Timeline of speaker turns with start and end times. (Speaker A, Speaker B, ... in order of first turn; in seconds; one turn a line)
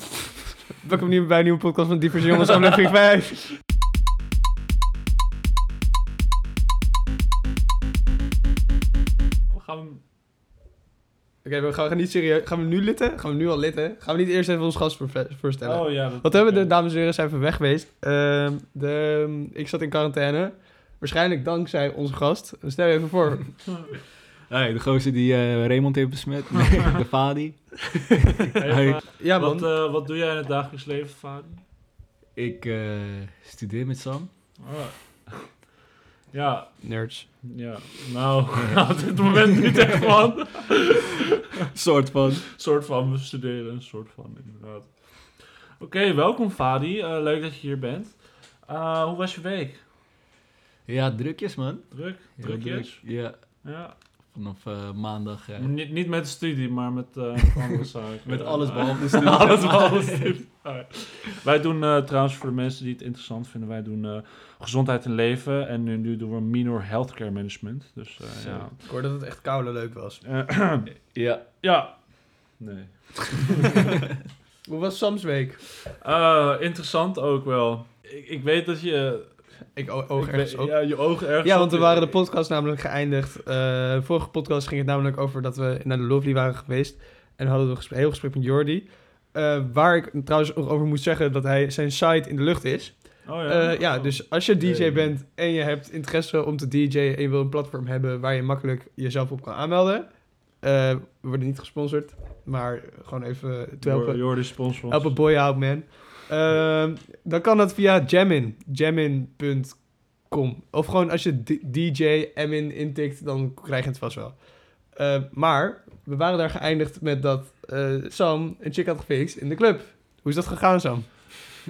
Speaker A: 0.7-3.5
Speaker B: 9.5-10.0
Speaker A: 11.4-23.8
Speaker B: 15.6-16.7
Speaker C: 24.5-29.0
Speaker B: 28.5-31.6
Speaker A: 29.2-29.7
Speaker C: 32.4-34.3
Speaker B: 34.6-35.5
Speaker B: 36.3-36.8
Speaker A: 36.8-37.3
Speaker B: 37.4-41.5
Speaker C: 41.6-42.5
Speaker B: 42.5-45.0
Speaker B: 45.8-49.8
Speaker C: 50.9-53.3
Speaker B: 51.9-53.0
Speaker B: 53.6-54.0
Speaker C: 54.3-55.7
Speaker B: 55.6-68.8
Speaker C: 58.2-60.4
Speaker C: 68.4-68.7
Speaker A: 68.8-70.2
Speaker B: 70.2-70.9
Speaker C: 71.1-71.4
Speaker B: 71.5-72.0
Speaker B: 72.6-74.0
Speaker A: 74.7-75.7
Speaker B: 75.9-79.4
Speaker A: 79.8-121.3
Speaker B: 80.2-82.1
Speaker B: 93.2-94.2
Speaker C: 94.6-95.1
Speaker B: 103.8-105.2